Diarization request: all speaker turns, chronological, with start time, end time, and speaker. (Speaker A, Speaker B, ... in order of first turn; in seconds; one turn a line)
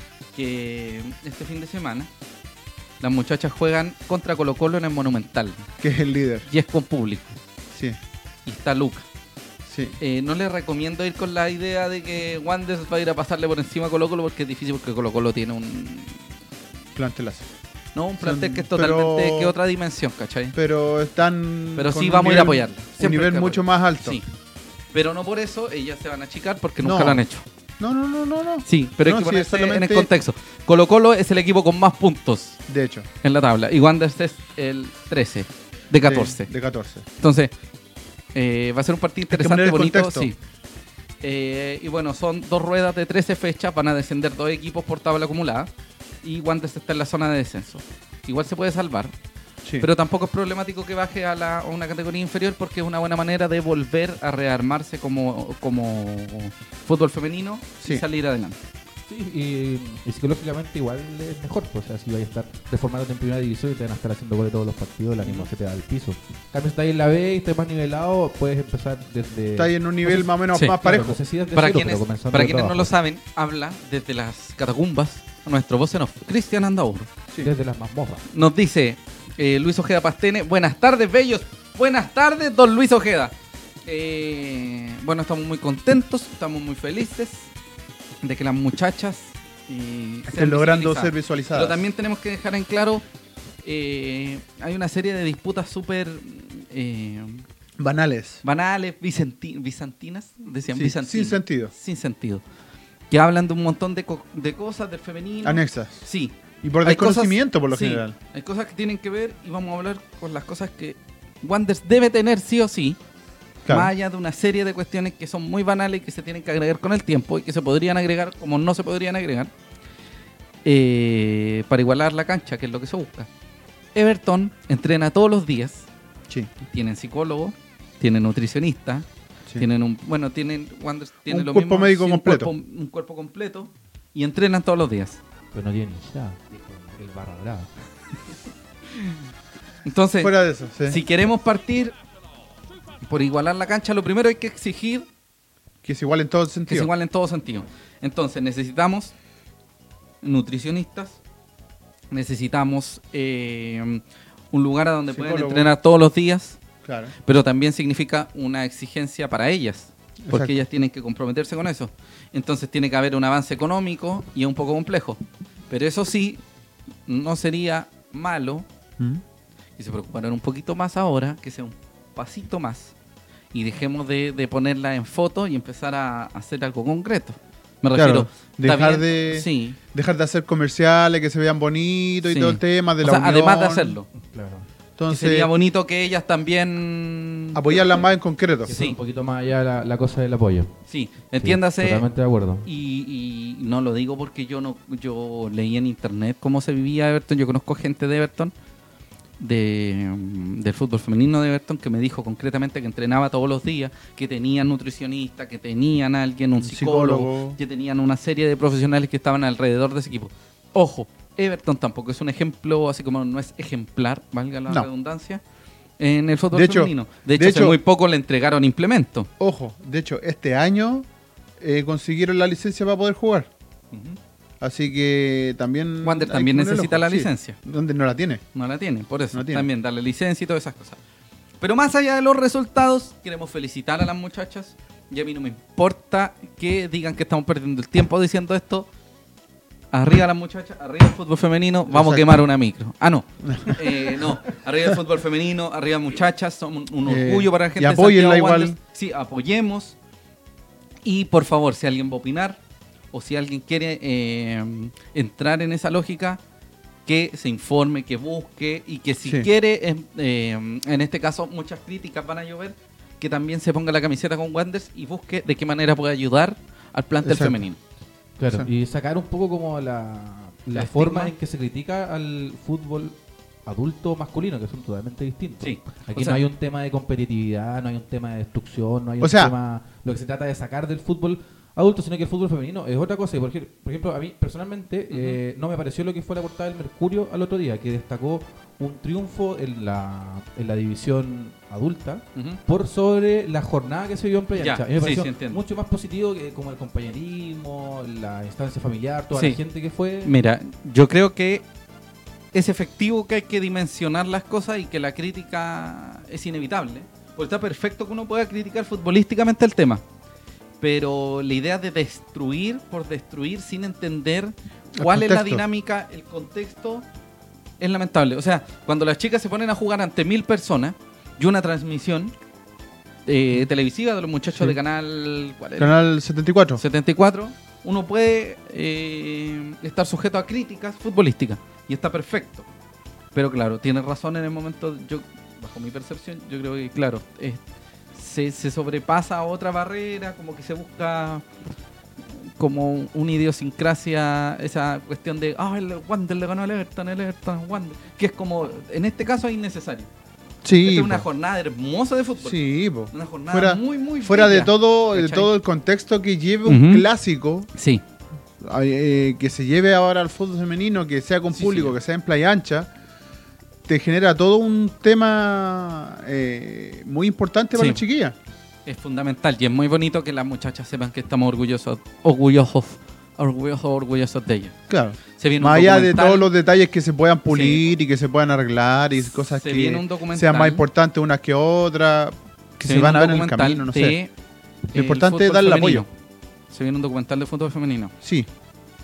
Speaker A: 0.3-2.1
Speaker A: 3.0-5.7
Speaker B: 5.8-6.5
Speaker A: 6.5-7.4
Speaker B: 7.7-8.0
Speaker A: 8.4-9.1
Speaker B: 9.7-10.0
Speaker A: 10.0-16.2
Speaker B: 16.9-17.5
Speaker A: 17.9-20.6
Speaker B: 18.2-19.5
Speaker B: 20.5-24.2
Speaker A: 21.8-24.2
Speaker A: 24.9-27.4
Speaker B: 26.8-27.2
Speaker B: 27.8-30.1
Speaker A: 28.6-32.6
Speaker B: 32.7-33.1
Speaker A: 33.2-36.5
Speaker B: 36.0-37.0
Speaker A: 37.2-37.5
Speaker A: 38.3-40.4
Speaker B: 39.3-40.3
Speaker A: 41.2-45.7
Speaker A: 46.2-49.1
Speaker A: 49.8-58.6
Speaker C: 59.1-72.9
Speaker A: 65.2-65.5
Speaker B: 69.5-71.2
Speaker A: 71.5-77.1
Speaker C: 77.4-78.2
Speaker A: 78.3-83.3
Speaker A: 83.8-87.5
Speaker A: 88.2-93.0
Speaker B: 90.3-91.8
Speaker A: 93.6-97.4
Speaker B: 97.8-98.4
Speaker A: 98.4-102.4
Speaker B: 100.7-101.7
Speaker A: 103.1-113.0
Speaker B: 105.4-106.1
Speaker B: 106.6-108.1
Speaker B: 113.7-113.9
Speaker A: 113.7-119.5
Speaker A: 120.6-123.3
Speaker A: 123.9-125.9
Speaker A: 126.7-129.1
Speaker A: 129.6-135.2
Speaker B: 131.3-132.5
Speaker C: 135.5-137.7
Speaker A: 138.9-139.2
Speaker A: 139.8-140.3
Speaker B: 140.2-141.0
Speaker A: 140.9-141.9
Speaker A: 143.0-145.1
Speaker B: 145.8-146.9
Speaker A: 146.7-149.1
Speaker A: 150.2-151.2
Speaker A: 152.1-156.6
Speaker B: 155.1-155.7
Speaker B: 156.8-157.1
Speaker A: 157.2-166.4
Speaker B: 160.3-160.6
Speaker A: 167.1-168.6
Speaker A: 169.8-172.9
Speaker A: 173.5-179.8
Speaker B: 177.9-184.0
Speaker A: 182.2-184.1
Speaker C: 184.2-184.7
Speaker B: 185.0-185.5
Speaker A: 185.1-188.0
Speaker B: 187.5-188.7
Speaker C: 188.6-190.7
Speaker A: 188.7-189.0
Speaker A: 190.9-192.1
Speaker C: 191.4-192.7
Speaker A: 192.6-198.5
Speaker A: 199.4-215.4
Speaker B: 206.6-207.6
Speaker A: 216.0-219.3
Speaker B: 216.5-217.8
Speaker B: 219.4-221.1
Speaker B: 221.6-223.5
Speaker A: 223.9-224.2
Speaker B: 224.6-228.4
Speaker A: 226.0-227.6
Speaker A: 228.5-231.0
Speaker B: 229.3-229.7
Speaker A: 231.6-238.9
Speaker A: 239.9-249.9
Speaker B: 241.9-242.4
Speaker B: 243.4-243.9
Speaker B: 247.0-248.8
Speaker A: 251.0-252.6
Speaker A: 253.1-256.4
Speaker A: 257.1-267.8
Speaker B: 267.2-267.6
Speaker C: 268.4-300.3
Speaker A: 270.7-271.3
Speaker A: 275.6-276.4
Speaker B: 279.2-279.5
Speaker A: 285.1-285.4
Speaker A: 292.3-292.6
Speaker A: 294.6-295.6
Speaker A: 299.3-299.6
Speaker A: 300.2-301.6
Speaker A: 302.5-310.0
Speaker A: 310.8-317.1
Speaker B: 314.9-315.6
Speaker A: 317.8-322.3
Speaker A: 323.2-325.9
Speaker B: 325.8-326.8
Speaker A: 326.8-332.6
Speaker A: 333.3-337.6
Speaker A: 338.1-341.4
Speaker A: 342.4-350.1
Speaker B: 350.6-351.3
Speaker A: 350.8-352.6
Speaker B: 352.4-357.7
Speaker A: 353.1-355.5
Speaker A: 356.6-357.1
Speaker A: 357.8-358.0
Speaker B: 358.6-362.9
Speaker A: 361.5-361.9
Speaker B: 363.9-368.4
Speaker A: 367.7-368.0
Speaker A: 368.9-374.8
Speaker B: 374.9-384.2
Speaker A: 375.4-376.5
Speaker A: 377.5-377.8
Speaker A: 379.2-380.8
Speaker A: 382.8-384.3
Speaker A: 384.9-386.1
Speaker B: 384.9-386.0
Speaker A: 386.7-388.1
Speaker B: 388.2-388.5